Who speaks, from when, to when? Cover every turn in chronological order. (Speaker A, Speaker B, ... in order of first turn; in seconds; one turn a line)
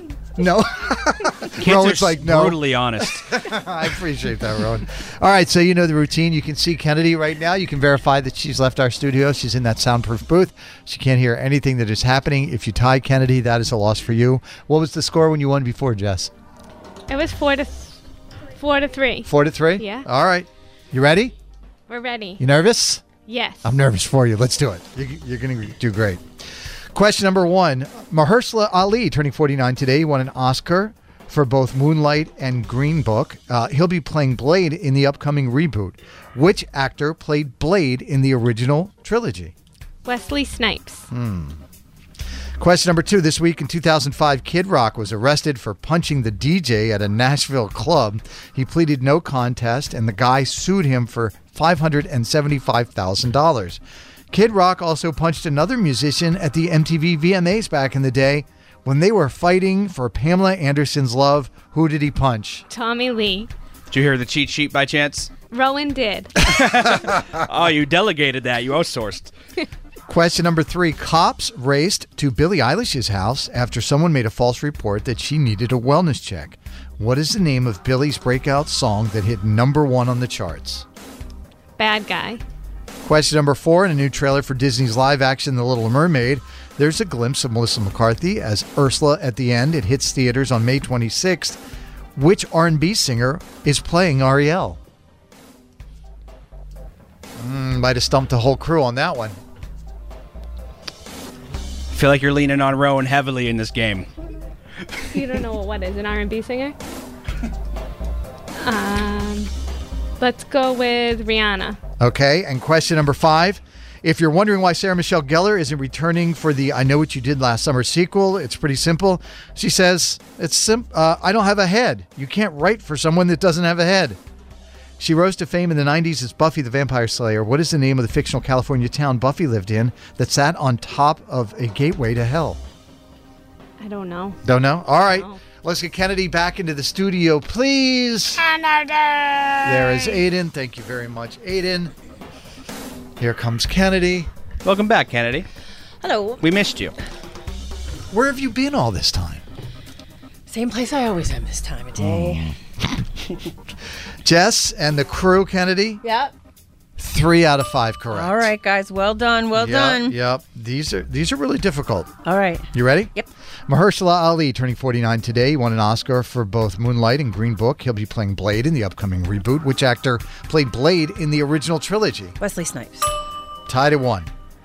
Speaker A: 0.4-16.3
Speaker B: 1.6-3.3
Speaker C: 17.1-18.0
Speaker C: 18.6-20.1
Speaker A: 19.3-21.3
Speaker C: 21.9-22.4
Speaker A: 22.4-23.1
Speaker C: 23.2-23.6
Speaker A: 23.6-26.2
Speaker A: 26.9-39.5
Speaker C: 40.0-41.1
Speaker A: 41.1-41.6
Speaker A: 42.6-53.8
Speaker A: 54.3-62.6
Speaker C: 62.7-63.5
Speaker B: 63.9-65.3
Speaker C: 65.5-66.3
Speaker B: 66.4-69.3
Speaker A: 70.1-80.8
Speaker C: 81.8-82.4
Speaker A: 83.0-91.6
Speaker A: 92.2-94.8
Speaker A: 97.4-99.4
Speaker B: 101.9-104.1
Speaker C: 105.1-106.8
Speaker C: 108.6-109.5
Speaker C: 110.2-111.8
Speaker A: 112.0-124.2
Speaker A: 125.0-132.6
Speaker C: 133.8-134.4
Speaker A: 134.4-138.4
Speaker C: 135.0-135.4
Speaker A: 139.6-141.9
Speaker A: 143.2-144.3
Speaker B: 144.7-145.5
Speaker D: 146.0-146.4
Speaker B: 146.4-146.9
Speaker A: 148.1-149.4
Speaker D: 150.5-152.5
Speaker A: 152.0-152.5
Speaker A: 154.2-156.0
Speaker D: 156.0-156.3
Speaker A: 157.0-158.5
Speaker D: 158.1-160.2
Speaker A: 159.6-162.1
Speaker D: 162.2-163.3
Speaker A: 162.7-163.1
Speaker A: 163.7-172.4
Speaker D: 172.4-173.1
Speaker A: 173.7-174.3